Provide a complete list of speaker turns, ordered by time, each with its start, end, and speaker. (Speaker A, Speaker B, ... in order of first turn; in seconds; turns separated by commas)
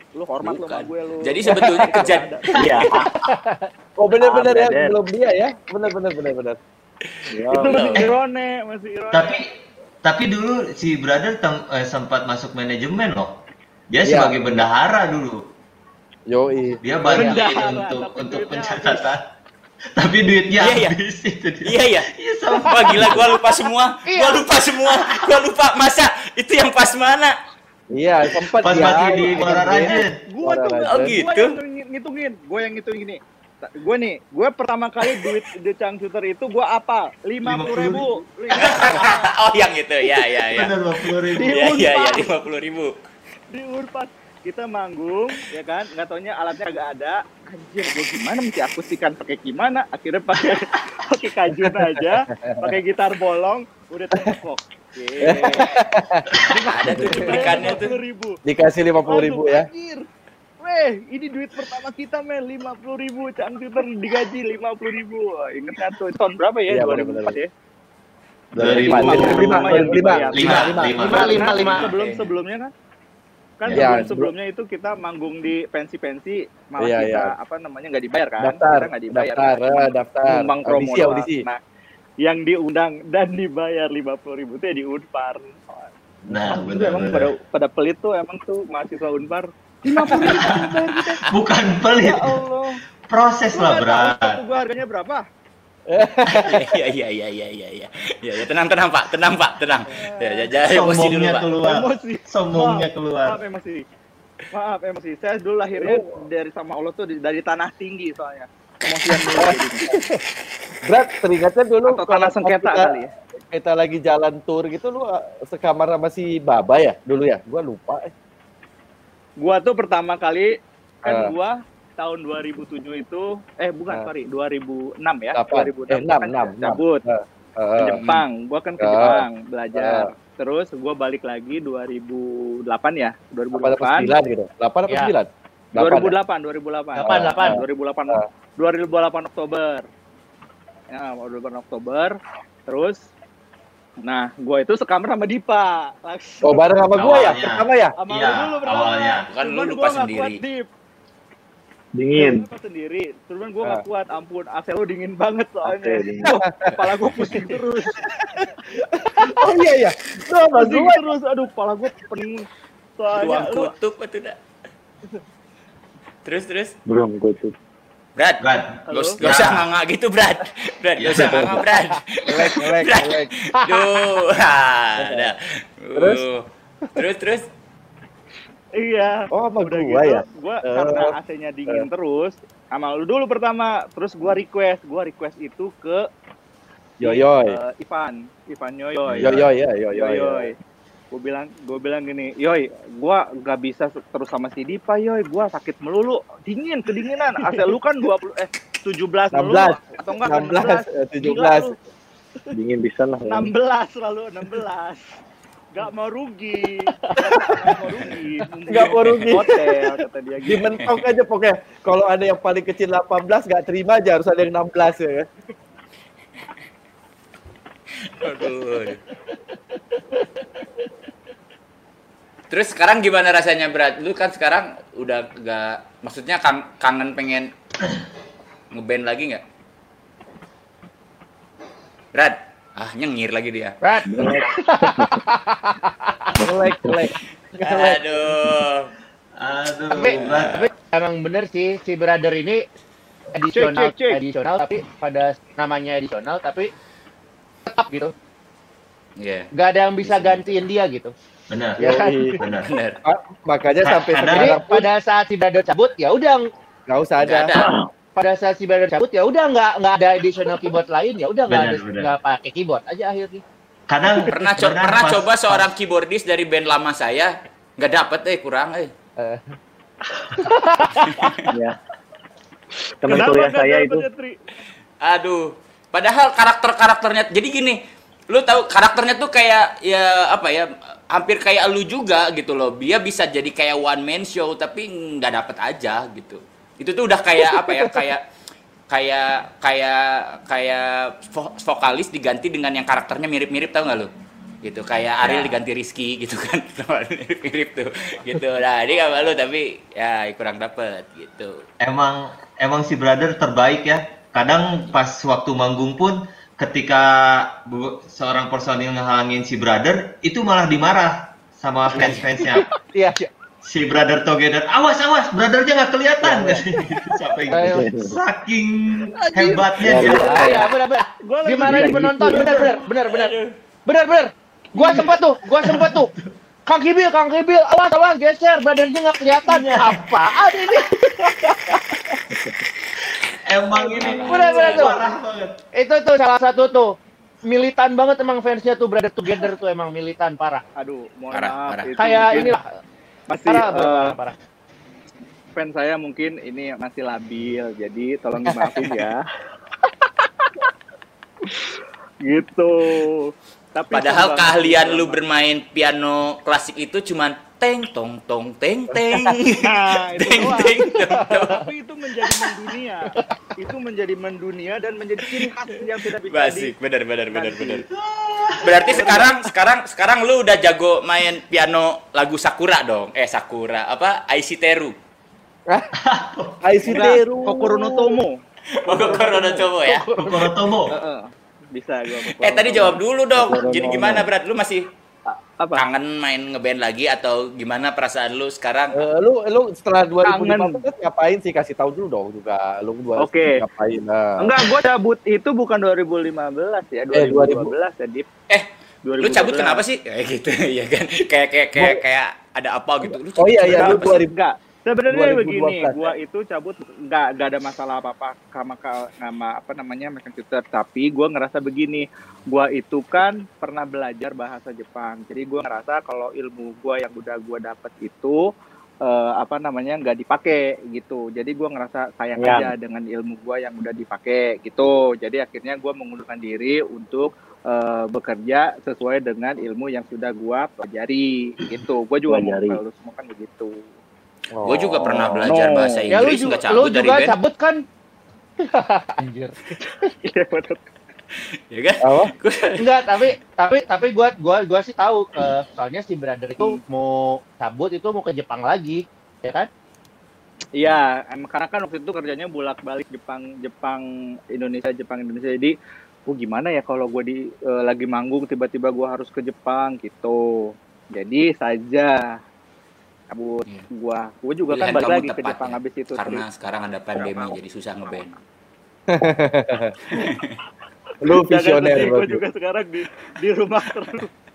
Speaker A: 0.1-3.0, Speaker B: 0.4-2.3, Speaker C: 2.5-3.1, Speaker D: 3.2-3.6, Speaker E: 4.0-6.6, Speaker C: 4.2-4.9, Speaker C: 7.3-8.0, Speaker B: 7.3-8.1, Speaker A: 7.5-9.4, Speaker F: 9.1-9.5, Speaker F: 10.0-13.3, Speaker F: 13.9-15.4, Speaker E: 14.0-14.4, Speaker E: 16.3-16.8, Speaker F: 16.8-19.2, Speaker A: 17.1-19.1, Speaker F: 19.9-23.4, Speaker B: 20.6-20.9, Speaker B: 21.6-27.3, Speaker D: 24.1-24.4, Speaker F: 24.9-25.2, Speaker E: 27.9-31.1, Speaker F: 28.5-30.2, Speaker A: 29.2-39.3, Speaker B: 30.9-31.6, Speaker F: 37.4-39.2, Speaker B: 38.6-40.7, Speaker F: 40.5-41.6, Speaker A: 41.3-42.3, Speaker B: 41.3-42.9, Speaker A: 43.5-55.8, Speaker E: 51.7-52.8, Speaker E: 55.2-56.3, Speaker B: 56.4-58.0, Speaker A: 56.7-58.4, Speaker E: 56.8-57.7, Speaker E: 58.4-59.7, Speaker A: 59.0-60.1, Speaker A: 60.6-67.5, Speaker E: 66.7-67.4, Speaker F: 68.5-71.8, Speaker E: 68.5-71.2, Speaker A: 68.6-72.7, Speaker B: 70.5-72.3, Speaker D: 71.0-71.9, Speaker A: 73.6-81.6, Speaker F: 73.7-74.0, Speaker E: 73.7-74.3, Speaker E: 76.8-77.3, Speaker E: 78.4-81.5, Speaker A: 82.2-85.9, Speaker F: 86.3-87.3, Speaker A: 86.4-91.3, Speaker B: 90.0-91.2, Speaker F: 90.2-90.7, Speaker F: 91.3-92.4, Speaker A: 91.9-92.8, Speaker F: 93.1-94.4, Speaker A: 93.5-95.2, Speaker E: 95.9-96.8, Speaker B: 96.4-101.5, Speaker A: 100.0-100.6, Speaker F: 100.6-103.4, Speaker A: 101.6-103.8, Speaker A: 104.5-110.0, Speaker E: 105.8-106.1, Speaker E: 109.1-109.6, Speaker E: 110.8-118.1, Speaker A: 111.8-113.1, Speaker A: 119.4-127.0, Speaker E: 121.0-121.3, Speaker E: 125.3-128.2, Speaker A: 127.8-134.1, Speaker E: 128.8-130.1, Speaker E: 133.5-136.2, Speaker A: 135.7-139.9, Speaker D: 136.9-137.6, Speaker E: 137.1-138.2, Speaker A: 140.9-142.2, Speaker A: 142.7-143.0, Speaker A: 144.0-146.6, Speaker E: 146.4-147.9, Speaker F: 146.9-149.3, Speaker A: 148.0-150.6, Speaker B: 149.3-150.4, Speaker C: 151.9-152.5, Speaker A: 152.2-158.5, Speaker C: 155.6-156.3, Speaker E: 156.3-156.6, Speaker B: 156.7-157.3, Speaker E: 159.2-161.0, Speaker A: 160.5-162.5, Speaker A: 163.0-163.7, Speaker B: 163.1-164.3, Speaker B: 166.2-166.7, Speaker C: 166.8-167.5, Speaker B: 168.2-177.4, Speaker F: 168.4-169.7, Speaker A: 168.9-169.2, Speaker F: 171.0-171.6, Speaker E: 172.3-173.3, Speaker D: 173.6-173.8, Speaker E: 175.0-175.3, Speaker E: 175.9-176.2, Speaker A: 178.7-186.1, Speaker E: 179.3-181.1, Speaker E: 187.0-187.6, Speaker A: 187.0-190.6, Speaker E: 189.2-190.5, Speaker A: 191.1-201.8, Speaker E: 199.3-201.7, Speaker C: 202.5-203.5, Speaker A: 203.3-205.1, Speaker A: 205.7-210.7, Speaker D: 207.0-207.3, Speaker E: 208.7-209.7, Speaker B: 208.8-209.4, Speaker E: 210.4-215.3, Speaker B: 218.2-219.0, Speaker B: 222.5-227.5, Speaker B: 228.7-229.4, Speaker B: 232.1-233.8, Speaker D: 233.8-236.1, Speaker C: 234.1-235.2, Speaker C: 236.4-237.0, Speaker E: 236.4-238.5, Speaker B: 237.6-238.9, Speaker F: 239.4-240.7, Speaker D: 239.9-242.6, Speaker B: 240.1-240.6, Speaker D: 243.3-246.7, Speaker A: 243.6-244.2, Speaker D: 247.7-248.1, Speaker B: 249.2-249.5, Speaker D: 249.5-251.1, Speaker B: 250.0-250.7, Speaker F: 251.5-252.7, Speaker D: 251.8-252.3, Speaker E: 251.8-252.4, Speaker B: 252.6-253.0, Speaker E: 253.1-254.9, Speaker F: 253.8-254.6, Speaker D: 254.3-256.4, Speaker E: 256.9-257.5, Speaker B: 257.2-257.7, Speaker C: 257.5-257.9, Speaker D: 258.1-263.4, Speaker F: 261.5-262.1, Speaker F: 263.9-265.6, Speaker B: 264.3-268.9, Speaker D: 269.2-269.5, Speaker D: 270.3-271.4, Speaker B: 271.1-271.5, Speaker C: 271.5-271.8, Speaker C: 273.0-274.1, Speaker A: 273.1-274.4, Speaker B: 275.0-288.2, Speaker B: 288.9-294.1, Speaker B: 294.6-301.6, Speaker F: 295.2-295.6, Speaker F: 301.8-312.7, Speaker B: 311.9-312.3, Speaker D: 312.9-313.3, Speaker F: 313.6-320.6, Speaker D: 317.5-317.9, Speaker C: 317.6-318.2, Speaker D: 319.2-326.1, Speaker C: 319.8-320.6, Speaker A: 321.2-322.7, Speaker C: 321.6-322.6, Speaker F: 324.8-325.1, Speaker F: 325.6-326.1, Speaker D: 326.7-331.7, Speaker F: 329.4-330.2, Speaker F: 333.4-335.6, Speaker B: 333.8-334.9, Speaker A: 334.0-334.3, Speaker D: 334.2-335.0, Speaker D: 335.8-336.9, Speaker D: 337.5-340.6, Speaker A: 340.8-342.6, Speaker B: 341.3-341.9, Speaker D: 342.0-342.6, Speaker A: 343.3-344.1, Speaker D: 343.5-344.4, Speaker A: 345.6-349.2, Speaker E: 348.4-348.9, Speaker A: 350.0-350.5, Speaker A: 351.4-355.2, Speaker B: 353.9-361.6, Speaker E: 358.9-359.3, Speaker A: 359.6-366.7, Speaker B: 366.3-367.8, Speaker A: 367.3-367.9, Speaker F: 367.9-369.1, Speaker B: 368.6-374.9, Speaker A: 368.8-369.4, Speaker F: 376.0-377.1, Speaker E: 376.6-378.2, Speaker A: 376.8-378.4, Speaker B: 378.8-380.1, Speaker A: 378.9-383.0, Speaker F: 380.2-380.9, Speaker B: 382.4-384.8, Speaker E: 383.4-384.2, Speaker C: 383.5-384.3, Speaker A: 385.3-385.8, Speaker B: 385.8-389.0, Speaker E: 388.9-394.6, Speaker A: 390.3-390.8, Speaker A: 393.2-393.6, Speaker A: 394.4-398.3, Speaker E: 397.1-397.7, Speaker A: 399.1-399.8, Speaker B: 399.2-404.2, Speaker E: 401.7-402.0, Speaker E: 403.1-404.3, Speaker A: 403.7-418.4, Speaker E: 405.1-406.1, Speaker A: 419.0-433.8, Speaker C: 422.4-422.7, Speaker C: 432.3-432.8, Speaker E: 434.5-435.5, Speaker B: 434.6-437.3, Speaker A: 435.5-436.1, Speaker D: 436.1-437.8, Speaker D: 438.6-439.6, Speaker A: 439.9-440.8, Speaker B: 441.7-442.8, Speaker E: 442.0-442.3, Speaker D: 442.8-449.7, Speaker A: 450.8-455.8, Speaker A: 456.3-460.4, Speaker A: 461.1-462.2, Speaker A: 463.3-466.4, Speaker B: 464.7-468.3, Speaker A: 467.1-468.3, Speaker E: 469.1-470.2, Speaker B: 470.1-470.6, Speaker E: 471.2-472.4, Speaker A: 471.3-474.3